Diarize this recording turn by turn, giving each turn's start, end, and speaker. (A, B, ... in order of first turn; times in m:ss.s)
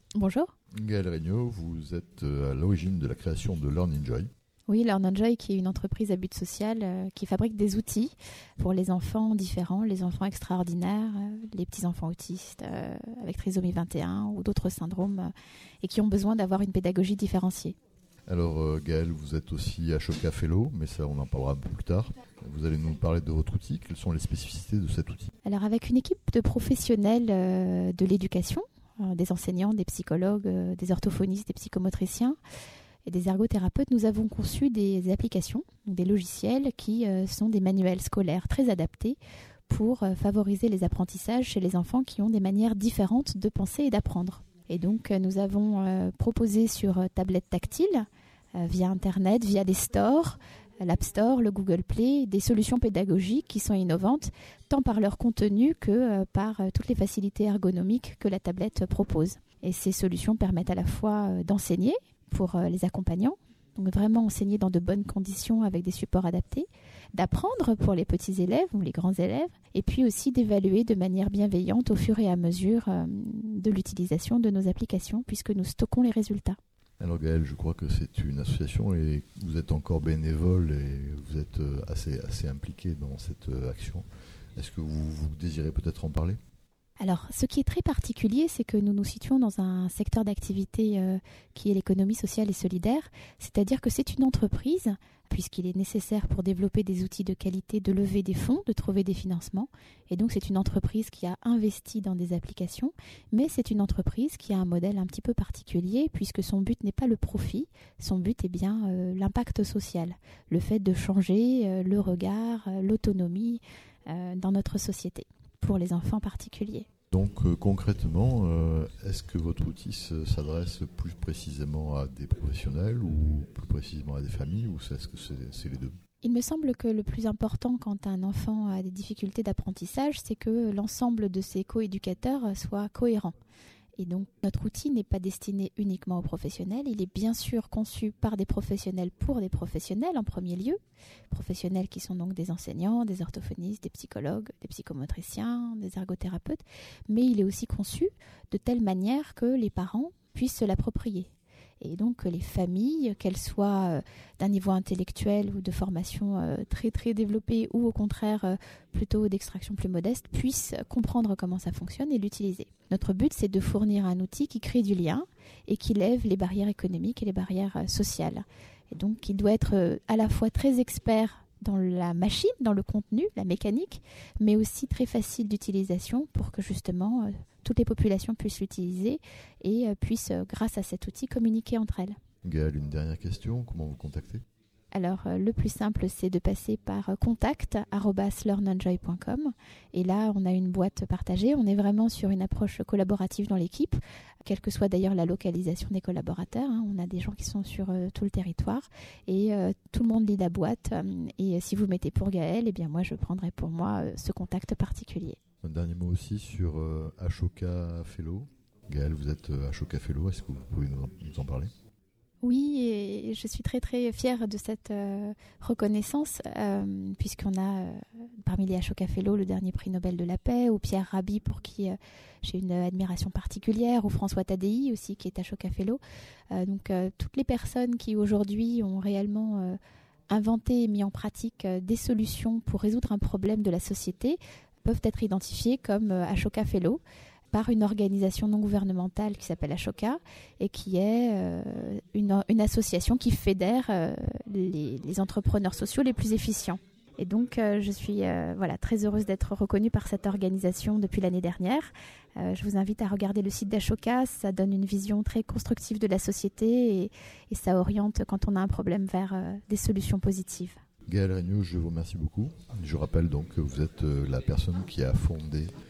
0:00.2-0:00.5 A
0:00.7-0:04.3 B
0:04.7-0:17.8 A
0:18.3-0:25.3 B
0:25.4-0:32.4 A
0:33.1-1:16.6 A
1:17.0-1:24.0 B
1:24.6-1:26.4 B
1:27.0-1:56.9 A
1:57.1-2:05.9 B
2:06.2-2:13.4 A
2:14.0-3:02.2 A
3:02.4-3:04.4 B
3:04.9-3:25.4 A
3:25.6-3:31.7 B
3:32.4-3:46.0 A
3:46.5-3:49.8 A
3:50.3-3:57.0 A
3:57.5-4:20.8 A
4:21.1-4:25.7 B